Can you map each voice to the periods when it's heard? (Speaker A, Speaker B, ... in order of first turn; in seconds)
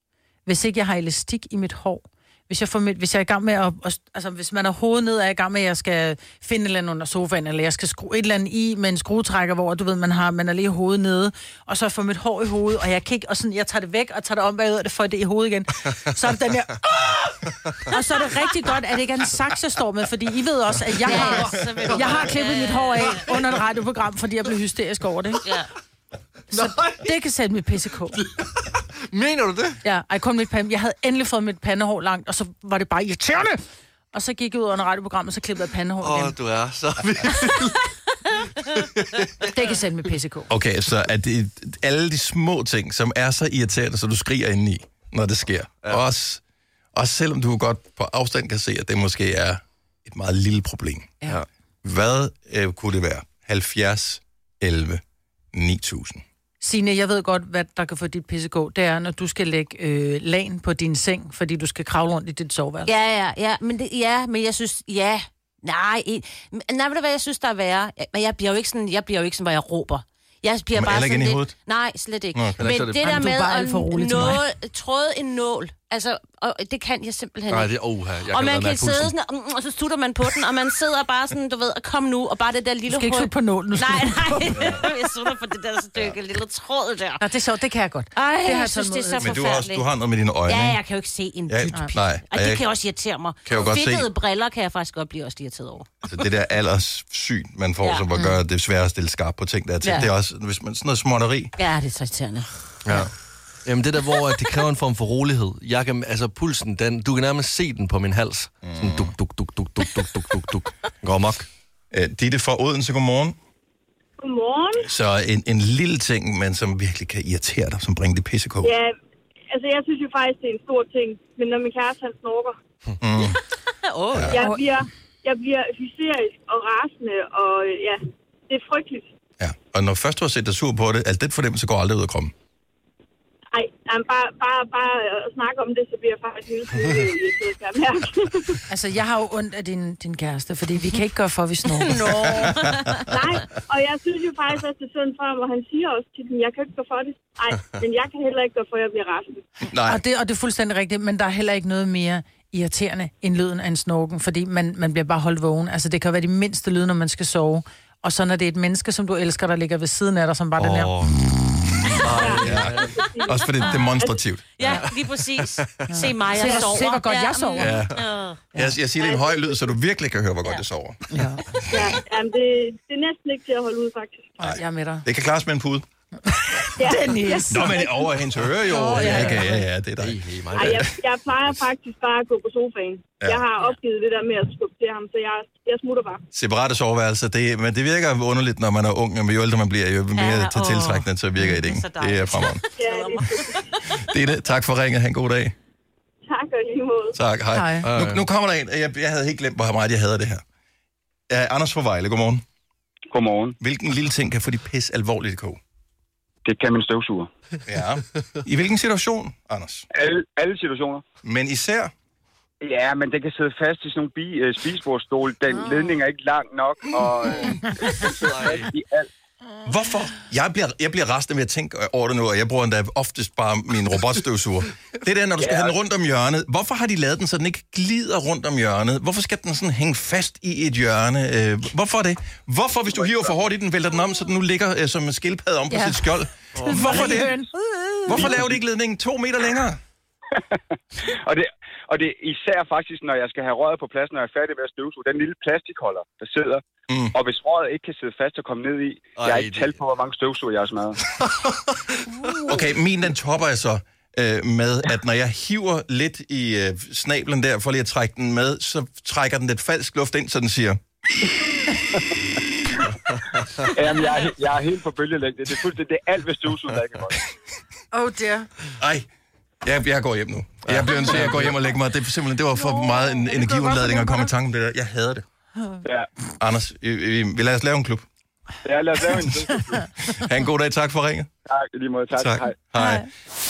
Speaker A: 0.5-25.4, 26.5-28.2, 29.8-33.6, 34.1-36.4, 39.5-40.5, 56.6-62.9, 73.0-74.4, 82.9-84.7, 87.2-89.5, 124.3-124.6, 138.7-142.5, 149.8-160.9, 165.9-167.8, 171.1-171.4, 174.4-175.0, 176.8-177.8, 178.7-179.6, 197.5-197.9, 235.7-238.3, 267.9-268.5, 272.5-274.3, 282.8-283.1
Speaker B: 21.0-23.2, 25.4-25.7, 62.9-87.2, 88.1-89.9, 90.4-96.0, 97.8-98.4, 99.8-100.1, 101.6-102.5, 123.8-124.5, 141.8-143.0, 163.0-163.8, 164.6-168.4, 190.1-193.8
Speaker C: 26.5-27.1, 28.2-29.8, 36.0-39.7, 72.6-73.2, 77.5-79.1, 102.8-103.1, 103.6-111.5, 160.6-161.3, 161.9-162.9, 164.7-166.1, 178.8-180.9, 197.8-198.2, 218.2-218.7, 249.2-249.8, 251.2-252.4, 270.7-271.6
Speaker D: 40.5-46.4, 46.9-51.2, 51.8-55.0, 55.5-56.2, 70.7-71.5, 72.3-72.7, 84.5-84.8, 89.2-90.8, 91.5-92.7, 93.5-94.1, 96.0-101.5, 108.6-109.1, 111.9-113.3, 114.8-118.8, 123.0-123.4, 124.1-124.4, 129.4-132.3, 142.1-142.6, 149.7-150.0, 162.4-164.6, 167.6-168.0, 168.5-171.1, 174.4-175.8, 177.5-180.9, 186.3-192.6, 193.9-195.5, 197.1-200.4, 201.3-202.4, 203.6-205.6, 207.7-209.9, 211.2-211.9, 219.7-237.4, 238.1-239.8, 246.9-247.2, 252.4-260.8, 268.8-269.1, 269.6-275.2, 276.4-278.0, 279.9-281.3, 282.1-283.1
Speaker E: 114.2-114.8, 118.6-118.9, 119.5-122.5, 124.3-129.1, 133.5-138.6, 143.1-149.4, 162.2-164.2, 168.9-169.7, 171.7-174.4, 176.8-178.1, 180.5-186.2, 192.8-193.7, 196.3-197.1
Speaker F: 203.1-203.6, 206.4-207.3, 209.9-211.0, 212.6-219.1, 225.4-225.8, 232.9-233.3, 238.1-238.5, 240.5-251.0, 263.6-267.2, 278.6-279.9, 281.5-282.5